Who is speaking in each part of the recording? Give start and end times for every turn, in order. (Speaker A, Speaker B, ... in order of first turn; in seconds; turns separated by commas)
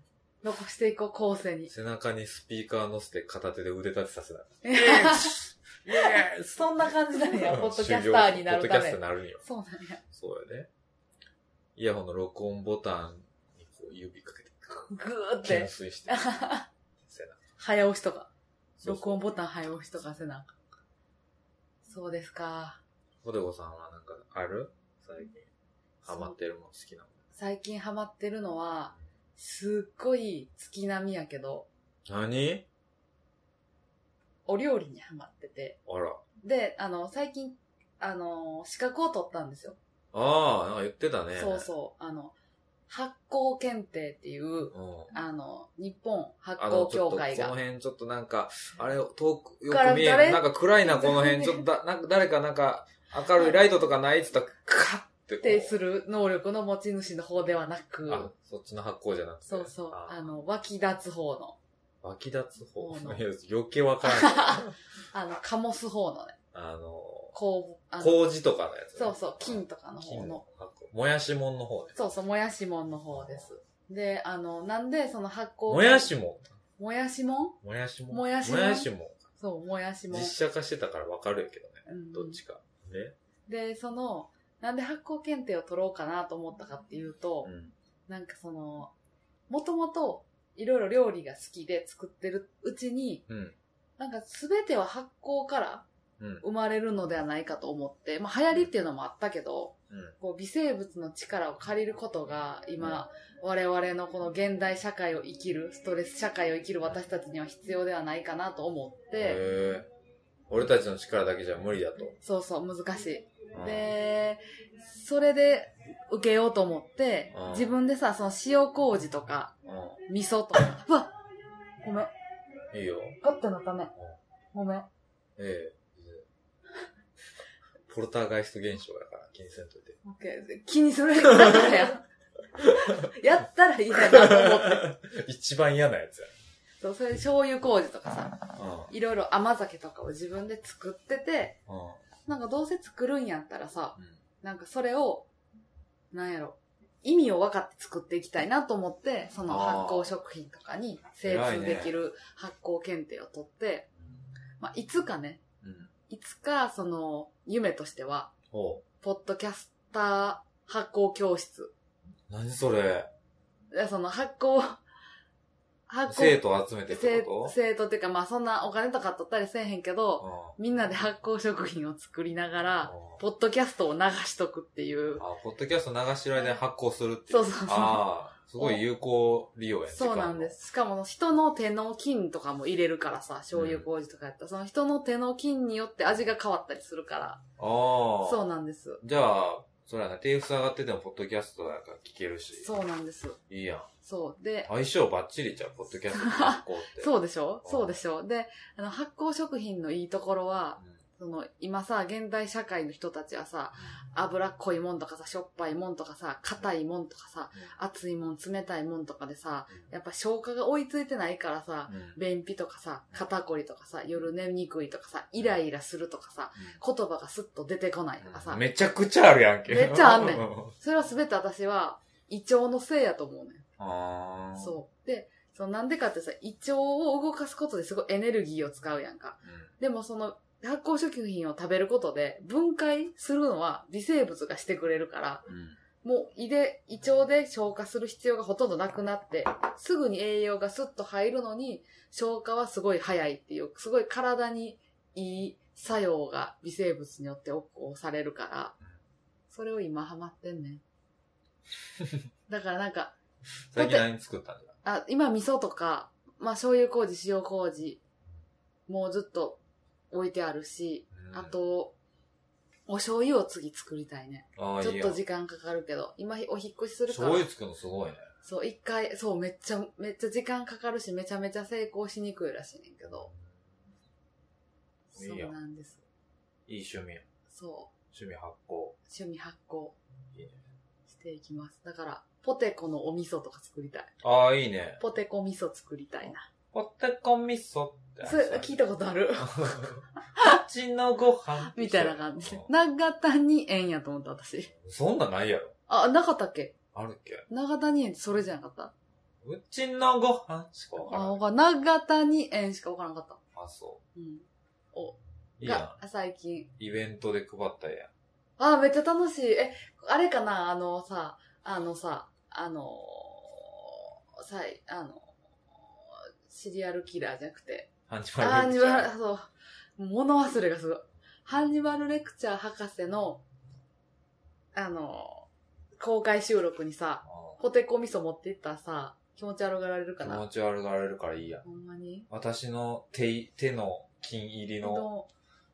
Speaker A: 0.4-1.7, Speaker B: 1.7-9.4, Speaker A: 4.6-5.3, Speaker A: 5.9-10.0, Speaker B: 10.1-10.7, Speaker B: 11.8-16.3, Speaker A: 14.9-16.7, Speaker B: 17.0-17.4, Speaker A: 17.6-18.3, Speaker B: 18.8-19.2, Speaker A: 18.9-20.5, Speaker A: 21.8-22.8, Speaker B: 23.2-25.5, Speaker B: 26.0-27.1, Speaker A: 26.1-26.4, Speaker A: 27.4-31.7, Speaker B: 32.1-32.6, Speaker A: 34.5-35.8, Speaker B: 35.9-36.2, Speaker A: 36.4-39.8, Speaker B: 40.1-41.7, Speaker A: 41.4-42.3, Speaker A: 42.9-47.5, Speaker B: 44.7-45.1, Speaker B: 46.6-55.8, Speaker A: 49.7-51.6, Speaker A: 53.4-53.6, Speaker A: 55.4-58.3, Speaker B: 58.1-60.3, Speaker A: 59.5-61.6, Speaker B: 62.0-64.8, Speaker A: 62.8-63.2, Speaker A: 64.0-66.4, Speaker B: 66.5-67.4, Speaker A: 67.3-68.2, Speaker B: 68.0-72.0, Speaker A: 68.9-70.4, Speaker A: 71.9-76.1, Speaker B: 73.1-73.5, Speaker B: 75.7-76.6, Speaker A: 76.8-77.6, Speaker B: 77.6-79.3, Speaker A: 78.1-78.9, Speaker A: 79.4-80.3, Speaker B: 80.1-83.1, Speaker A: 81.9-82.4, Speaker A: 83.5-87.5, Speaker B: 87.4-87.7, Speaker A: 88.1-88.9, Speaker A: 89.5-93.2, Speaker B: 93.3-93.5, Speaker A: 94.0-95.9, Speaker B: 96.2-96.4, Speaker A: 96.4-109.4, Speaker B: 99.9-100.1, Speaker B: 109.2-109.9, Speaker B: 110.5-112.2, Speaker A: 112.2-119.5, Speaker B: 113.5-113.9, Speaker B: 117.3-117.7, Speaker B: 119.7-120.0, Speaker A: 120.1-121.1, Speaker A: 121.8-122.1, Speaker B: 122.7-123.2, Speaker A: 123.2-123.9, Speaker A: 124.5-124.9, Speaker B: 125.4-126.2, Speaker B: 127.9-130.0, Speaker A: 130.0-132.0, Speaker A: 132.6-134.9, Speaker B: 132.6-133.1, Speaker B: 134.0-136.3, Speaker A: 136.8-138.4, Speaker B: 138.6-138.9, Speaker A: 138.9-141.6, Speaker B: 141.7-142.0, Speaker A: 142.2-145.3, Speaker A: 146.1-153.9, Speaker B: 149.5-150.1, Speaker B: 151.2-151.9, Speaker A: 154.6-155.4, Speaker B: 155.6-155.9, Speaker A: 156.1-158.3, Speaker B: 158.5-158.8, Speaker A: 159.0-161.7, Speaker B: 162.3-163.1, Speaker A: 163.7-164.8, Speaker A: 165.9-175.2, Speaker B: 166.1-167.5, Speaker B: 170.2-170.6, Speaker B: 172.8-173.2, Speaker B: 175.2-180.6, Speaker A: 177.3-178.1, Speaker A: 179.9-187.4, Speaker B: 183.5-183.8, Speaker B: 187.6-188.4, Speaker A: 188.2-189.0, Speaker B: 189.0-192.7, Speaker A: 192.6-193.4, Speaker B: 193.5-193.9, Speaker A: 194.0-194.7, Speaker B: 194.6-197.1, Speaker A: 196.1-218.6, Speaker B: 197.6-197.9, Speaker B: 211.9-212.2, Speaker B: 218.2-220.7, Speaker A: 219.7-223.6, Speaker B: 223.8-224.8, Speaker A: 224.6-235.4, Speaker B: 229.4-229.7, Speaker B: 235.5-235.8, Speaker A: 236.0-248.7, Speaker A: 249.5-250.8, Speaker A: 252.5-253.1, Speaker B: 253.7-254.7, Speaker A: 253.7-254.1, Speaker A: 254.8-258.0, Speaker A: 258.9-259.6, Speaker A: 260.1-261.9, Speaker B: 261.1-261.5, Speaker A: 262.9-267.5, Speaker B: 264.6-265.2, Speaker B: 267.1-268.3, Speaker A: 268.4-273.3, Speaker B: 273.0-273.6, Speaker A: 275.1-276.0, Speaker B: 275.1-275.5, Speaker B: 276.7-277.2, Speaker A: 277.5-277.9, Speaker B: 278.1-278.9, Speaker A: 279.1-280.0, Speaker A: 281.1-284.1, Speaker B: 284.2-285.0, Speaker A: 285.0-286.4, Speaker B: 286.7-288.7, Speaker A: 288.2-289.8, Speaker B: 289.4-292.7, Speaker A: 291.6-294.7, Speaker B: 294.7-295.7, Speaker A: 295.9-296.7, Speaker B: 296.9-297.4, Speaker A: 297.5-298.9, Speaker B: 299.4-301.4, Speaker A: 301.1-303.4, Speaker B: 303.5-304.0, Speaker A: 304.1-306.7, Speaker B: 305.6-305.9, Speaker B: 306.8-308.1, Speaker A: 308.6-323.4, Speaker B: 318.1-319.1, Speaker A: 324.7-325.5, Speaker A: 326.0-330.4, Speaker B: 327.3-327.6, Speaker B: 330.2-331.6, Speaker A: 331.6-332.3, Speaker B: 332.3-335.1, Speaker A: 334.8-335.3